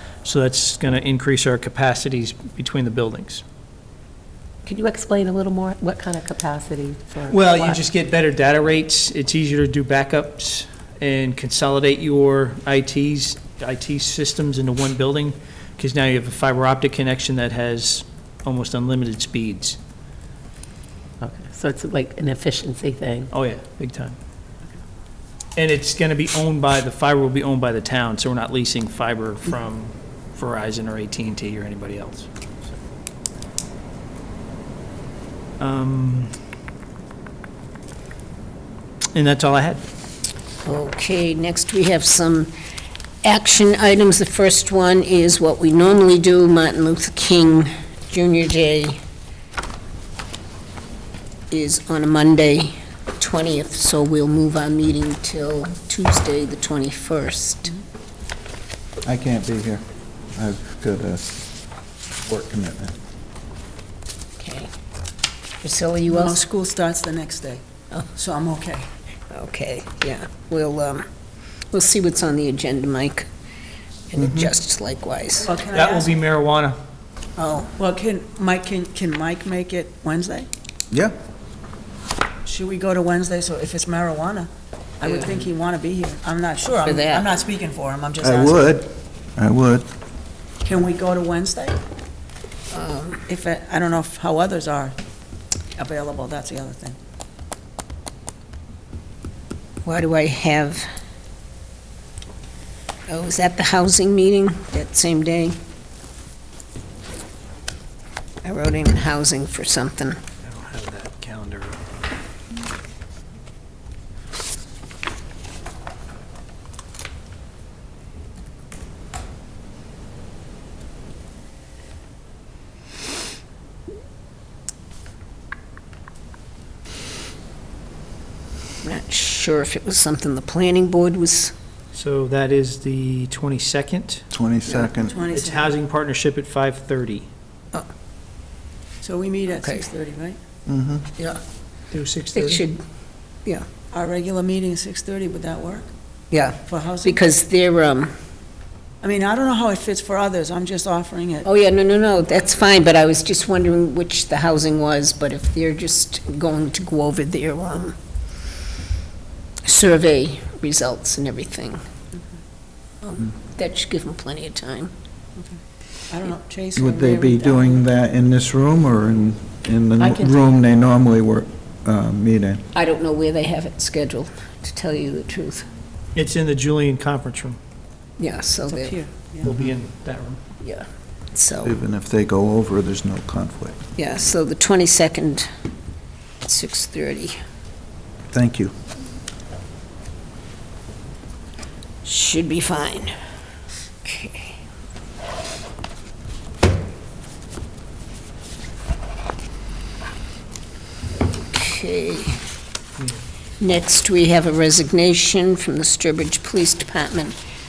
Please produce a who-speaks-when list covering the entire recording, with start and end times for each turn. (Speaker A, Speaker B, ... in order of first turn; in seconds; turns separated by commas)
Speaker A: 0.2-3.4, Speaker B: 4.7-7.8, Speaker A: 7.3-19.8, Speaker B: 21.2-23.3, Speaker A: 23.3-24.2, Speaker A: 25.6-32.3, Speaker A: 35.6-36.3, Speaker A: 39.1-39.8, Speaker C: 40.7-42.5, Speaker C: 43.2-49.0, Speaker C: 51.5-57.8, Speaker D: 59.0-59.8, Speaker D: 60.4-61.4, Speaker D: 62.2-63.0, Speaker C: 64.4-64.7, Speaker C: 65.6-66.4, Speaker E: 66.1-67.6, Speaker E: 68.2-68.9, Speaker C: 69.3-71.1, Speaker C: 71.7-73.3, Speaker C: 74.1-75.6, Speaker D: 74.2-74.5, Speaker E: 75.4-76.1, Speaker A: 75.7-76.8, Speaker C: 77.4-77.8, Speaker E: 77.8-80.5, Speaker E: 82.5-84.5, Speaker C: 85.0-85.5, Speaker E: 85.0-88.6, Speaker C: 86.8-87.3, Speaker D: 88.2-89.9, Speaker E: 90.6-91.8, Speaker C: 92.7-93.2, Speaker E: 93.3-95.0, Speaker E: 95.8-97.0, Speaker C: 99.8-100.9, Speaker C: 103.1-105.6, Speaker C: 108.4-110.2, Speaker A: 110.4-111.8, Speaker C: 128.8-131.5, Speaker A: 131.9-134.2, Speaker D: 134.3-135.2, Speaker E: 134.7-135.8, Speaker A: 135.3-137.3, Speaker E: 139.0-140.4, Speaker C: 139.5-139.9, Speaker D: 140.7-141.1, Speaker A: 141.9-142.7, Speaker C: 142.3-142.8, Speaker E: 143.9-145.9, Speaker C: 146.3-148.1, Speaker E: 146.7-147.2, Speaker E: 149.0-151.5, Speaker C: 151.4-158.0, Speaker C: 159.7-161.8, Speaker C: 163.0-164.9, Speaker E: 166.1-167.8, Speaker D: 166.8-172.6, Speaker B: 170.0-170.5, Speaker C: 172.7-175.7, Speaker A: 176.2-177.6, Speaker C: 178.2-179.0, Speaker E: 178.7-179.5, Speaker A: 179.4-180.4, Speaker C: 180.6-181.8, Speaker D: 181.6-183.8, Speaker C: 184.0-185.5, Speaker C: 186.4-187.4, Speaker D: 188.3-188.7, Speaker C: 192.0-193.1, Speaker C: 194.1-194.6, Speaker C: 201.5-202.4, Speaker C: 203.6-207.4